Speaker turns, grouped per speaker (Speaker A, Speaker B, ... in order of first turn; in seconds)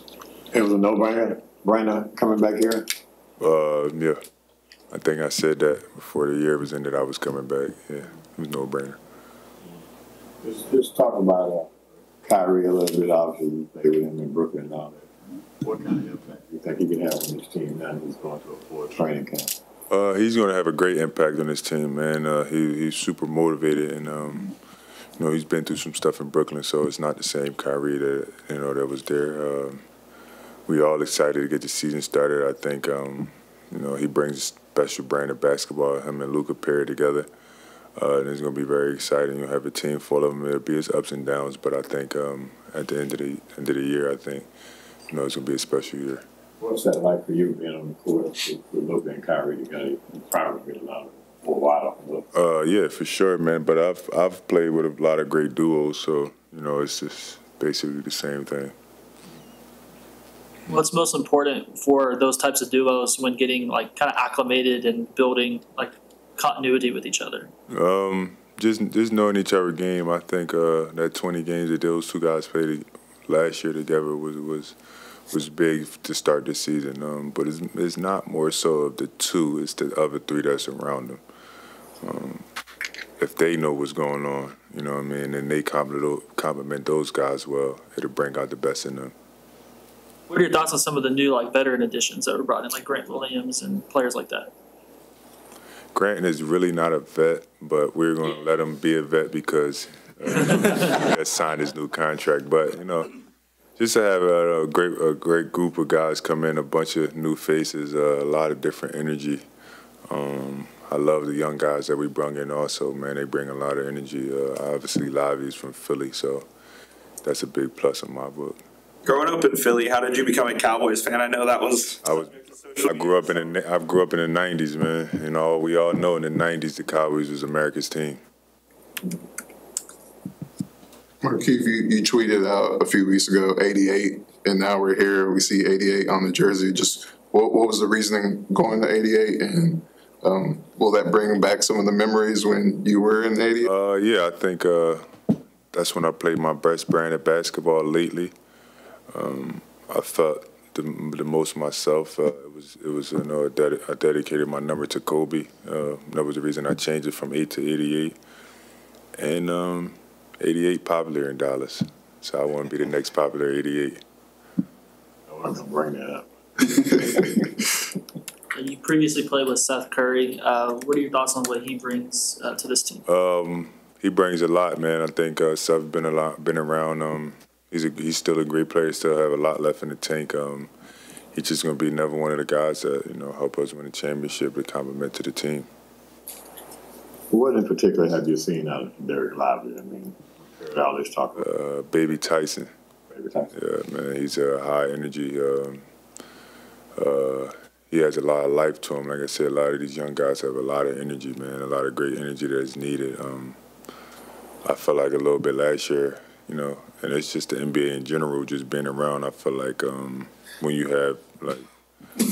Speaker A: 0.5-2.9, 10.4-11.7, 12.2-15.1, 15.6-19.5, 46.6-52.3, 165.3-167.6, 187.3-191.5, 193.1-193.5
Speaker B: 3.4-4.2, 4.9-9.0, 19.9-24.5, 25.2-29.8, 30.7-37.3, 38.0-44.5, 45.1-46.2, 52.3-58.7, 67.7-74.8, 75.3-81.2, 82.0-82.5, 83.2-89.1, 96.0-103.1, 103.8-109.5, 110.1-116.5, 117.2-118.6, 122.0-128.2, 143.6-145.1, 145.7-148.3, 149.1-158.2, 159.2-164.0, 173.1-180.7, 181.3-185.7, 191.4-192.7, 193.6-195.8, 197.0-203.6, 204.6-211.7
Speaker C: 60.7-67.5, 90.3-94.5, 168.5-173.0
Speaker D: 119.1-122.0, 122.6-122.9
Speaker E: 131.2-143.7